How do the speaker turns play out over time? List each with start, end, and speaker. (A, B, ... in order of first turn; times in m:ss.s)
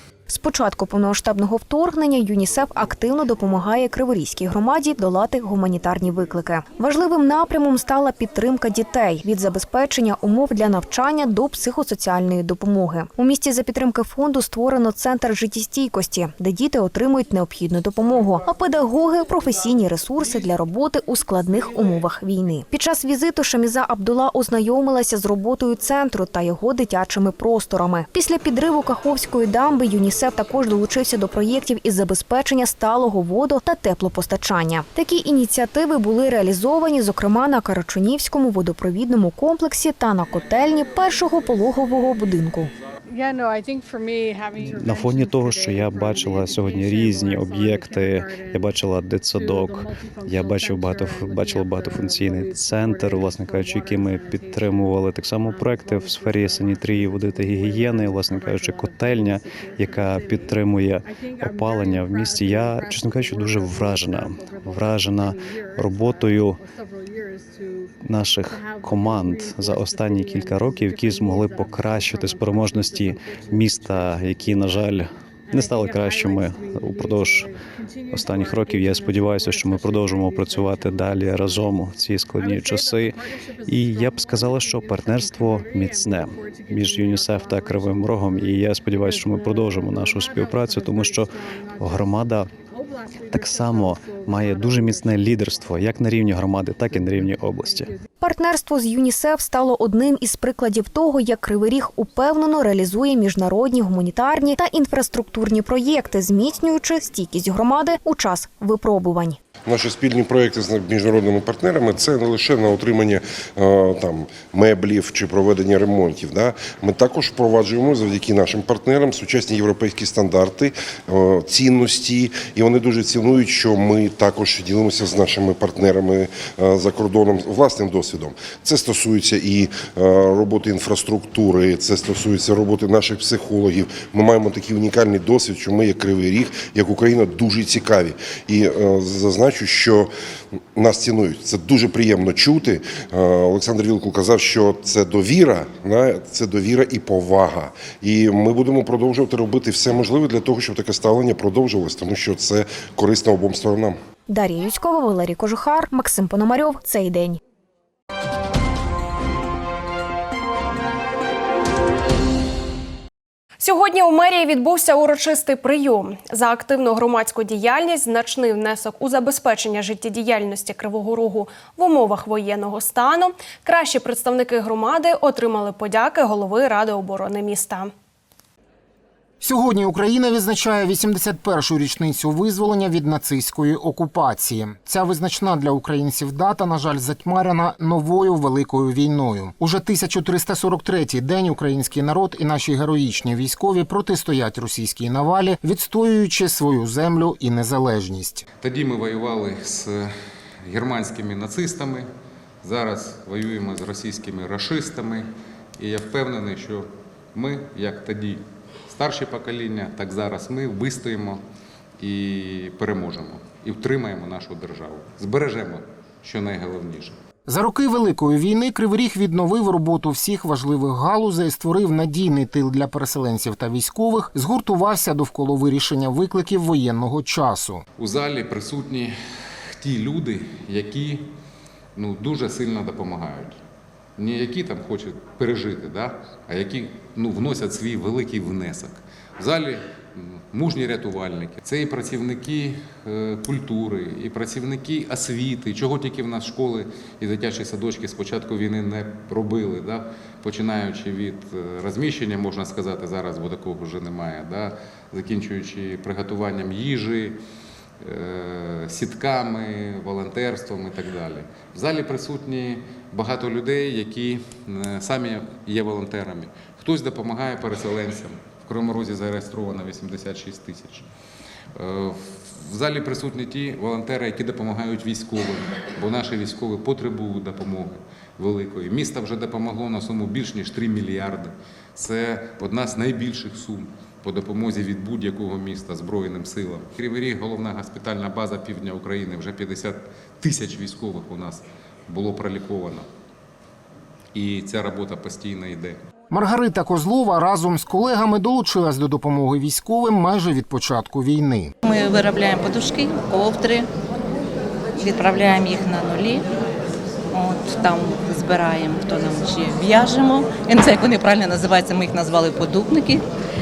0:00.3-0:42.7 A
0:44.6-1:06.6 B
1:08.0-1:17.5 B
1:18.1-1:32.5 B
1:33.2-1:37.9 B
1:38.2-1:49.4 A
1:49.6-2:20.1 C
2:20.7-2:34.0 C
2:34.3-2:37.4 A
2:43.6-2:57.9 D
2:59.4-3:18.4 E
3:18.6-3:22.1 F
3:22.6-3:31.4 F
3:32.0-3:37.2 F
3:37.4-3:47.8 E
3:48.0-3:51.3 F
3:51.9-3:53.6 F
3:54.2-4:17.4 F
4:18.0-4:31.0 F
4:31.7-4:53.1 F
4:54.3-4:56.0 F
4:56.3-5:01.7 E
5:01.8-5:03.9 G
5:05.0-5:06.4 G
5:07.3-5:13.2 G